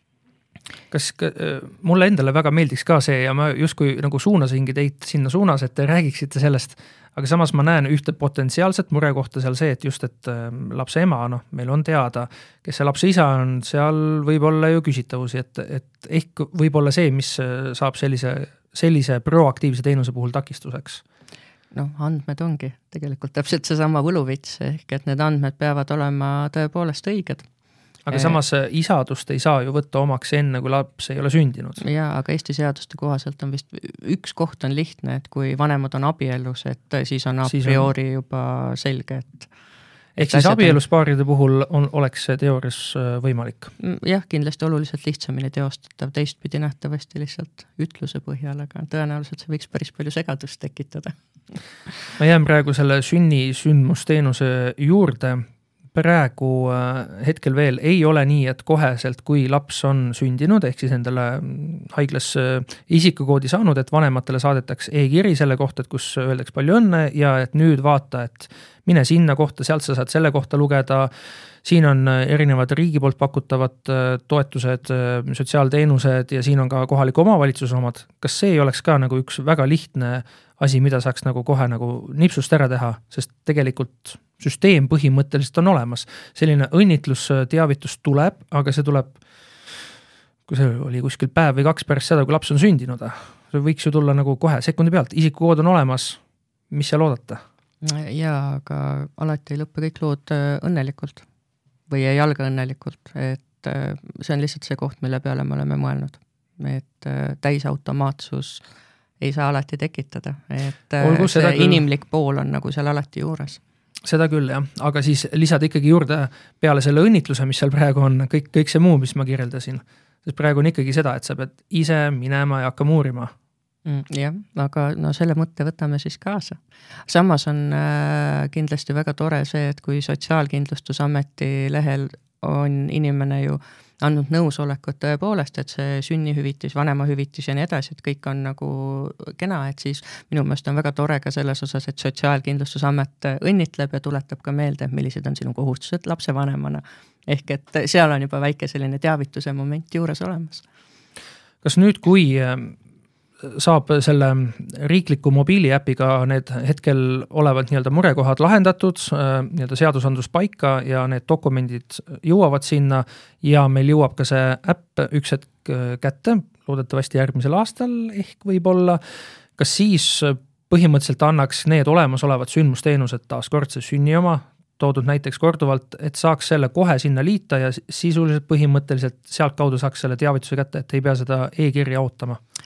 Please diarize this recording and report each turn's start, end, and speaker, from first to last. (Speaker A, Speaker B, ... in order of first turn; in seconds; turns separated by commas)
Speaker A: 0.9-21.0, Speaker B: 21.7-27.5, Speaker A: 28.1-31.8, Speaker B: 28.1-28.4, Speaker B: 31.8-39.5, Speaker A: 37.5-37.9, Speaker A: 40.2-43.7, Speaker B: 40.2-40.8, Speaker B: 43.8-51.1, Speaker A: 52.2-71.1, Speaker A: 71.6-89.2, Speaker A: 90.5-96.2, Speaker A: 96.7-97.4, Speaker B: 97.8-101.3, Speaker B: 101.9-108.6, Speaker B: 109.2-113.6, Speaker A: 111.0-111.8, Speaker A: 114.0-123.3, Speaker B: 123.9-150.7, Speaker A: 151.6-152.8, Speaker A: 153.4-169.0, Speaker A: 169.6-182.4